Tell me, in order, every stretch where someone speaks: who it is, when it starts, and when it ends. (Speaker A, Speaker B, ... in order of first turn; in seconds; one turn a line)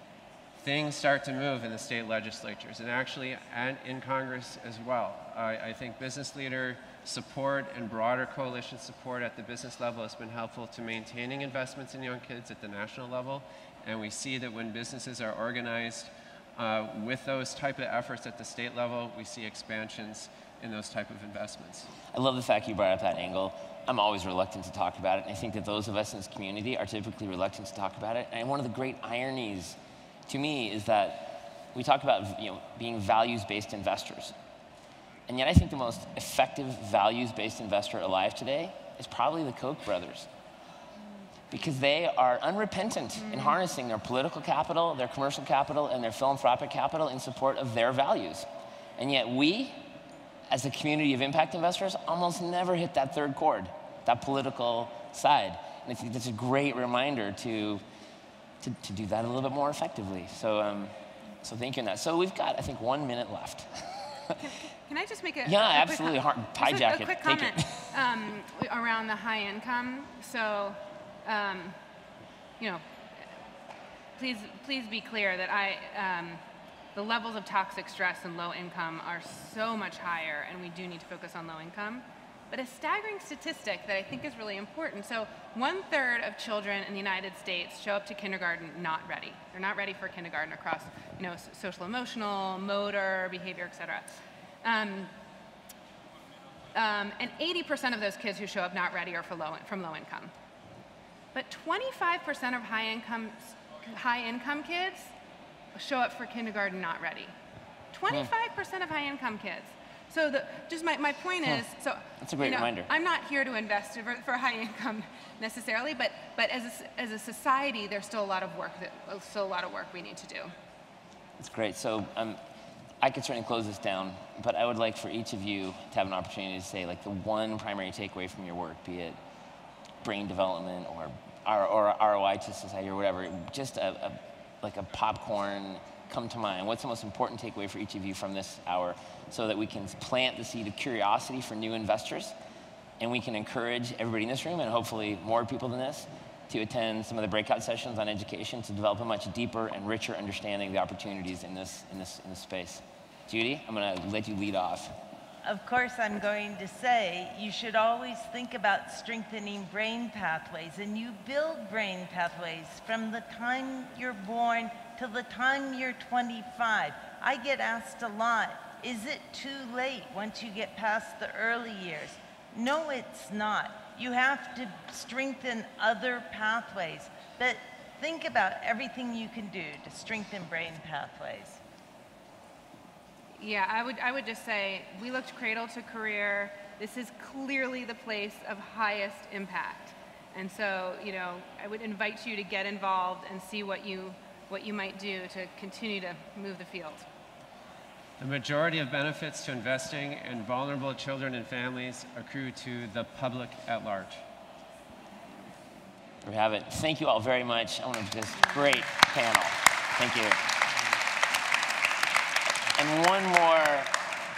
Speaker A: 0.6-21.9
Speaker B: 22.1-34.3
Speaker B: 35.3-40.3
Speaker B: 41.5-48.5
Speaker B: 49.0-49.9
Speaker B: 50.5-57.8
Speaker B: 58.6-64.4
Speaker C: 64.4-71.8
Speaker B: 65.5-67.9
Speaker C: 74.2-76.4
Speaker C: 77.0-95.1
Speaker C: 96.7-100.3
Speaker C: 101.3-105.1
Speaker C: 105.8-107.3
Speaker C: 107.9-120.5
Speaker B: 112.2-112.9
Speaker B: 121.4-122.4
Speaker B: 123.0-129.2
Speaker B: 130.0-142.3
Speaker B: 143.0-154.9
Speaker D: 155.4-181.6
Speaker C: 183.4-197.1
Speaker A: 198.2-204.2
Speaker B: 206.2-210.5
Speaker B: 212.8-214.0